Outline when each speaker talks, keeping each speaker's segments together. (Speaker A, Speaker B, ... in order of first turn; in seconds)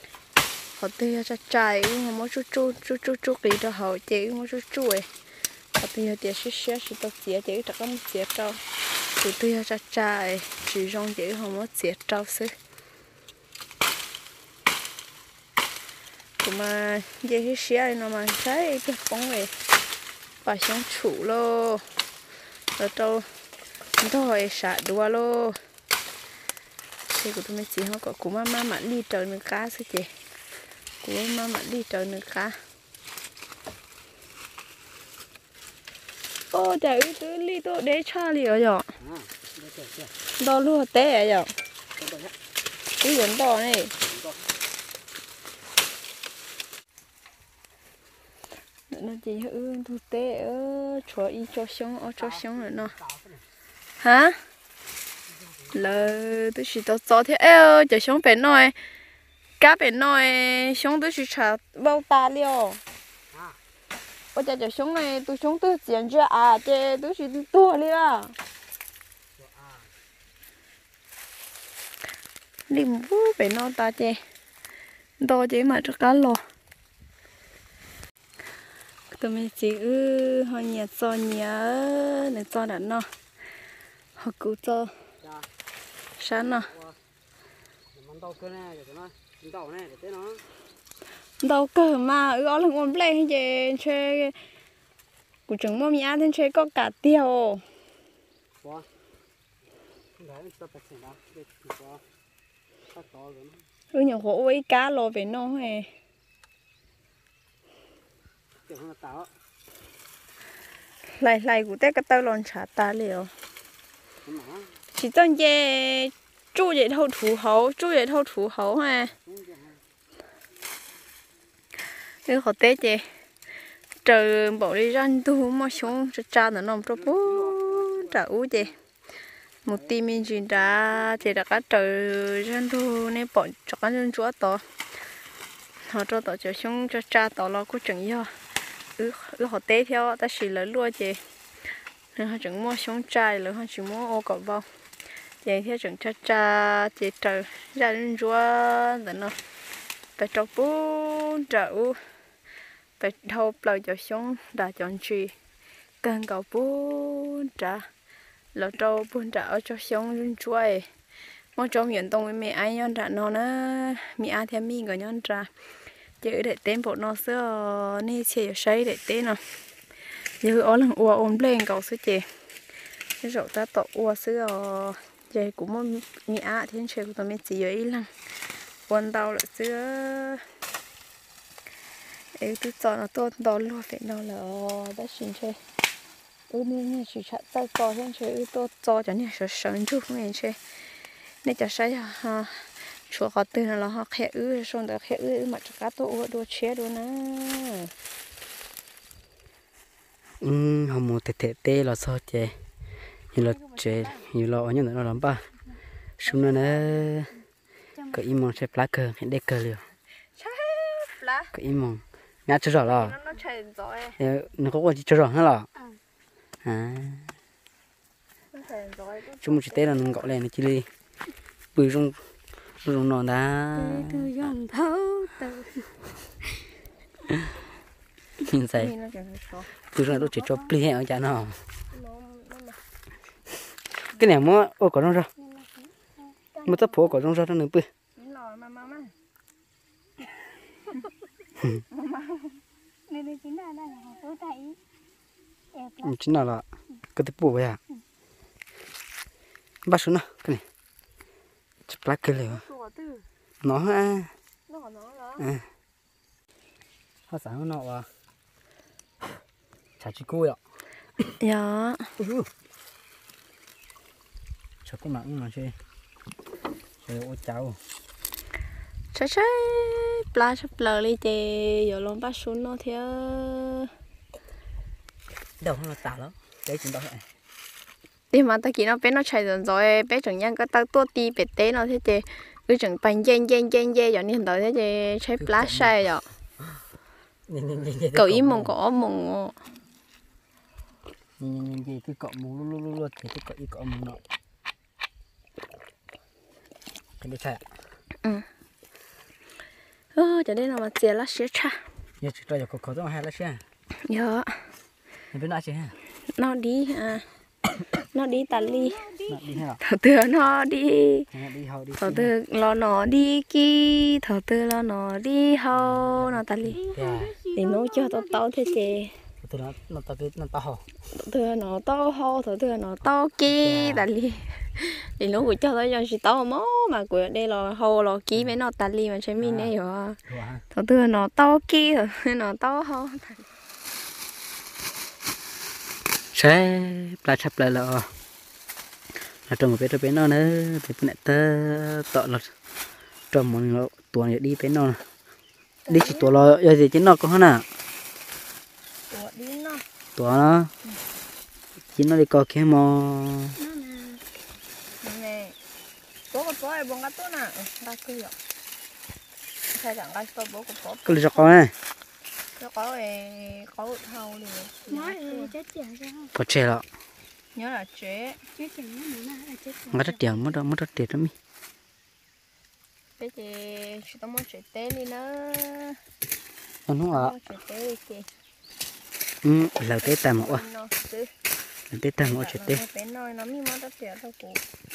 Speaker A: 0.8-5.1, 5.8-8.6, 9.2-12.5, 16.4-19.5, 20.4-21.9, 22.8-23.3, 24.0-25.6, 27.1-30.1, 31.0-32.6, 36.5-38.9, 40.4-41.5, 43.0-43.9, 48.9-52.9, 54.0-54.4, 55.7-58.8, 59.6-62.8, 64.3-68.3, 72.7-74.2, 75.2-76.4, 79.1-83.1, 84.2-84.9, 86.2-86.7, 91.4-94.4, 95.5-97.6, 103.9-105.9, 111.1-113.3, 114.9-119.1, 122.2-123.1, 124.0-128.7, 129.6-134.6, 135.8-138.3, 139.0-141.2, 142.2-144.7, 145.4-149.3, 150.2-152.0, 153.0-155.3, 156.0-157.9, 158.5-160.9, 161.6-165.5, 166.2-169.4, 170.4-172.3, 173.2-178.2, 178.9-180.4, 182.4-185.6, 186.5-190.6, 191.4-197.9, 203.5-203.8, 206.3-206.9, 210.4-211.5, 212.8-214.2, 218.5-220.3, 228.7-229.7, 231.9-232.8, 236.5-237.0, 238.2-239.1, 241.9-242.6, 252.4-253.2, 254.7-255.5, 261.4-262.1, 269.1-273.9, 278.3-286.2, 288.1-289.6, 300.1-301.9, 304.0-304.7, 306.3-307.3, 308.1-309.0, 309.8-311.3, 312.0-316.8, 317.5-319.2, 321.1-330.2, 330.7-333.5, 345.9-346.3, 349.1-349.8, 353.7-354.1, 355.0-355.6, 356.3-358.4, 359.7-361.5, 362.6-365.5, 367.6-368.4, 373.2-376.0, 377.1-378.3, 380.0-381.3, 382.2-384.6
Speaker B: 39.0-40.1, 42.0-42.3, 44.0-44.5, 52.1-53.4, 55.3-56.1, 63.3-63.6, 69.4-69.9, 85.2-85.5, 86.7-87.0, 87.9-90.4, 100.2-102.0, 102.9-103.6, 108.7-109.3, 114.2-114.8, 119.1-119.8, 126.9-128.8, 129.7-129.9, 200.4-202.6, 203.3-205.5, 206.2-207.3, 208.1-209.8, 211.5-213.2, 214.2-215.7, 216.6-217.3, 219.4-220.9, 221.7-222.2, 222.8-224.3, 228.4-228.9, 229.9-231.6, 234.2-235.3, 236.7-237.9, 246.0-247.8, 249.8-250.6, 251.9-252.6, 253.6-254.3, 255.4-255.7, 257.3-258.1, 260.0-260.6, 262.2-262.5, 264.8-265.8, 267.0-267.8, 275.6-277.3, 285.4-285.9, 287.5-288.7, 291.4-294.2, 297.2-297.6, 302.2-303.6, 305.3-305.9, 309.3-309.8, 311.3-312.3, 315.7-317.4, 319.4-320.9, 323.5-324.1, 329.4-329.7, 330.3-330.6, 336.3-338.1, 339.5-342.5, 343.3-345.0, 345.9-347.6, 350.1-350.7, 351.9-353.6, 361.1-361.7, 366.3-366.9, 369.9-371.3, 376.9-377.3, 379.4-380.6, 381.9-382.8
Speaker C: 207.9-208.4, 223.8-225.9, 230.2-230.6, 235.4-236.3, 243.1-244.8, 308.4-309.6, 316.7-318.9, 364.9-366.3, 368.5-370.6